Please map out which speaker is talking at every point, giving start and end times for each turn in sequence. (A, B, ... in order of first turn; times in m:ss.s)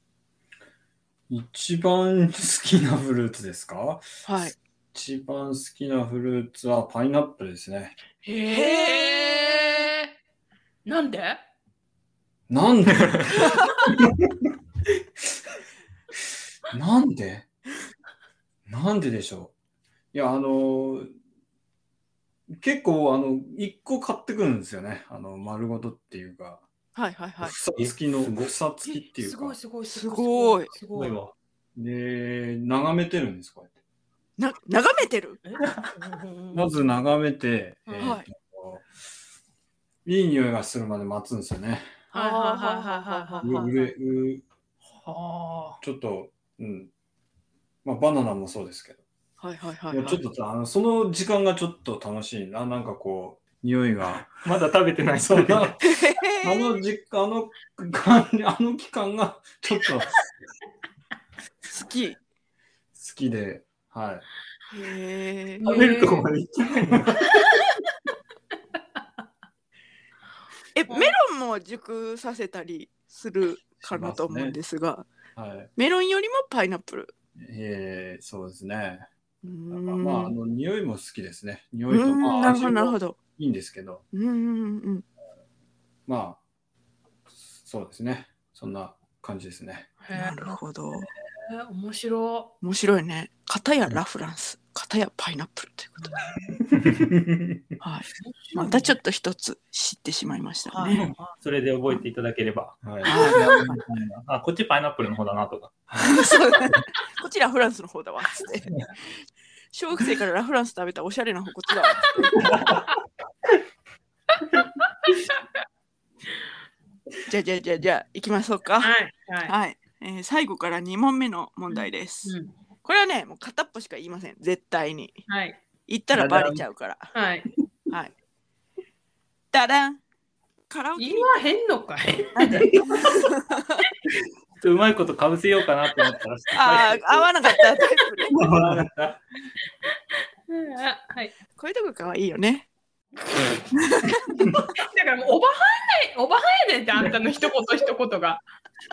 0:01.3-0:04.0 A
0:04.2-0:04.6 B
0:04.9-0:08.0 A
0:08.2-0:10.1 C
0:08.5-0:09.9 B
0:10.8-0:11.4 C
0:12.5-0:14.3 A
0:16.7-0:17.5 A
0:18.7-0:19.5 A
0:20.1-0:21.1 A
0:22.5-0:26.6 A
0:27.0-0:27.6 B
0:27.4-0:29.6 A
0:27.8-0:28.5 D
0:28.8-0:31.2 C
0:29.9-0:30.7 B
0:30.9-0:31.3 D
0:31.8-0:33.7 A
0:34.4-0:35.4 B
0:35.4-0:36.7 C
0:36.5-0:38.9 A
0:37.9-0:38.2 C
0:38.0-0:38.3 B
0:40.0-0:41.9 A
0:42.1-0:43.8 B
0:42.1-0:43.9 C
0:43.4-0:44.4 A
0:45.0-0:45.8 D
0:45.8-0:46.9 A
0:47.8-0:49.0 A
0:49.4-0:50.2 B
0:49.9-0:54.3 A
0:54.4-0:55.8 D
0:55.2-1:00.3 A
0:55.8-0:56.8 B
1:01.7-1:02.2 B
1:03.0-1:04.2 A
1:04.7-1:05.7 B
1:05.6-1:06.3 C
1:05.6-1:07.4 D
1:10.8-1:15.1 B
1:10.9-1:11.1 C
1:13.8-1:14.6 A
1:15.4-1:15.7 A
1:15.8-1:17.1 B
1:17.4-1:19.1 A
1:19.4-1:20.4 B
1:19.7-1:24.0 A
1:21.9-1:23.2 B
1:24.1-1:25.0 B
1:26.1-1:26.4 A
1:27.5-1:29.9 A
1:30.0-1:32.5 C
1:30.1-1:31.1 B
1:32.6-1:36.2 B
1:36.9-1:37.6 A
1:37.8-1:41.0 B
1:38.2-1:38.9 C
1:40.7-1:41.4 C
1:40.9-1:46.2 D
1:42.8-1:43.8 A
1:43.1-1:43.5 B
1:46.0-1:48.7 B
1:49.7-1:52.2 B
1:51.8-1:52.8 C
1:52.4-1:52.8 D
1:57.3-1:59.0 B
1:58.8-1:59.6 C
1:59.5-2:05.2 B
2:01.7-2:02.5 C
2:05.3-2:05.6 C
2:05.9-2:07.1 B
2:06.1-2:06.6 D
2:07.1-2:07.4 C
2:09.5-2:10.0 B
2:10.7-2:11.4 B
2:11.0-2:12.9 C
2:12.4-2:13.8 B
2:12.4-2:12.8 D
2:14.6-2:17.3 D
2:16.5-2:18.4 B
2:18.4-2:19.2 D
2:18.4-2:18.9 A
2:20.5-2:21.3 C
2:21.6-2:22.7 B
2:23.8-2:24.2 B
2:24.3-2:28.4 C